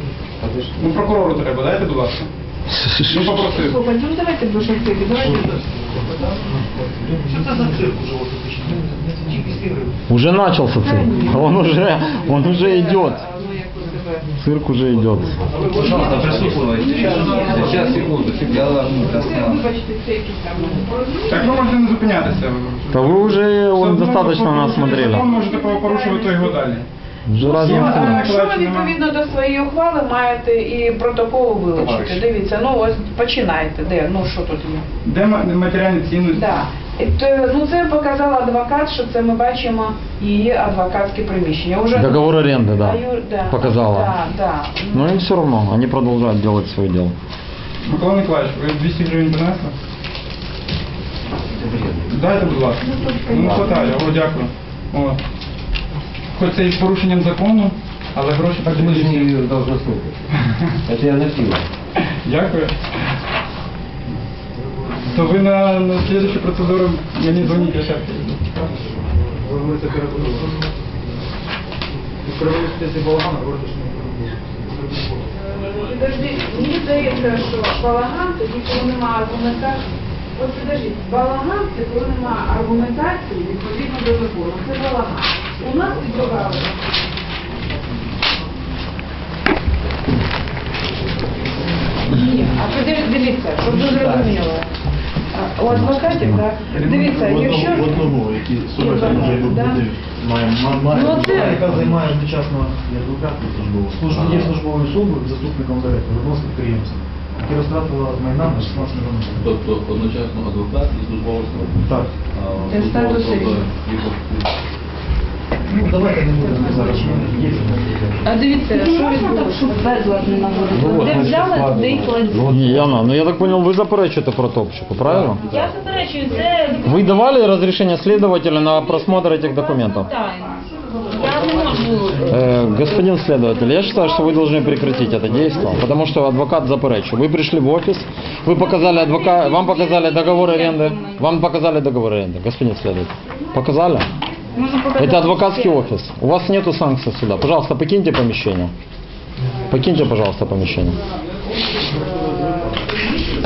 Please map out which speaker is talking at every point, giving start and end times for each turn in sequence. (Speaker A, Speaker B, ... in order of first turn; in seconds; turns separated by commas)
Speaker A: 0.4-0.9, Speaker B: 0.8-2.3, Speaker C: 2.7-3.6, Speaker B: 3.0-3.8, Speaker D: 3.5-5.5, Speaker E: 5.2-10.0, Speaker C: 10.1-13.2, Speaker D: 10.8-14.3, Speaker C: 14.4-15.4, Speaker A: 15.5-19.6, Speaker E: 15.6-18.1, Speaker D: 15.7-21.6, Speaker B: 21.3-26.9, Speaker C: 22.9-25.3, Speaker D: 24.6-26.7, Speaker C: 27.3-28.3, Speaker D: 27.4-34.9, Speaker B: 27.5-29.0, Speaker B: 31.8-32.2, Speaker B: 35.0-36.5, Speaker D: 36.3-45.2, Speaker C: 41.9-44.2, Speaker C: 44.9-47.1, Speaker B: 47.9-49.8, Speaker A: 51.6-52.3, Speaker B: 52.1-55.2, Speaker D: 52.8-54.1, Speaker B: 56.3-59.4, Speaker A: 58.6-60.2, Speaker A: 60.9-61.6, Speaker B: 62.2-62.8, Speaker E: 64.6-65.4, Speaker B: 65.1-68.7, Speaker E: 69.1-70.9, Speaker E: 72.2-75.3, Speaker D: 75.3-79.8, Speaker D: 80.3-86.7, Speaker D: 92.1-94.7, Speaker E: 93.6-94.4, Speaker D: 95.3-99.9, Speaker E: 95.9-97.6, Speaker F: 97.2-100.1, Speaker E: 98.9-109.5, Speaker G: 100.9-101.6, Speaker D: 100.9-101.6, Speaker F: 101.6-102.0, Speaker F: 104.0-104.6, Speaker F: 109.3-114.5, Speaker E: 111.8-112.1, Speaker D: 112.7-113.6, Speaker E: 115.7-118.3, Speaker D: 116.3-117.5, Speaker D: 118.2-121.5, Speaker G: 118.6-122.5, Speaker A: 120.7-123.2, Speaker C: 120.8-121.3, Speaker C: 122.5-125.6, Speaker A: 125.1-125.4, Speaker G: 125.4-127.3, Speaker C: 126.8-130.1, Speaker G: 129.5-130.6, Speaker G: 131.1-132.5, Speaker C: 132.2-144.1, Speaker G: 133.8-135.7, Speaker G: 138.5-141.4, Speaker G: 144.6-145.7, Speaker D: 144.7-145.3, Speaker C: 144.9-148.7, Speaker C: 149.7-151.0, Speaker D: 151.8-152.8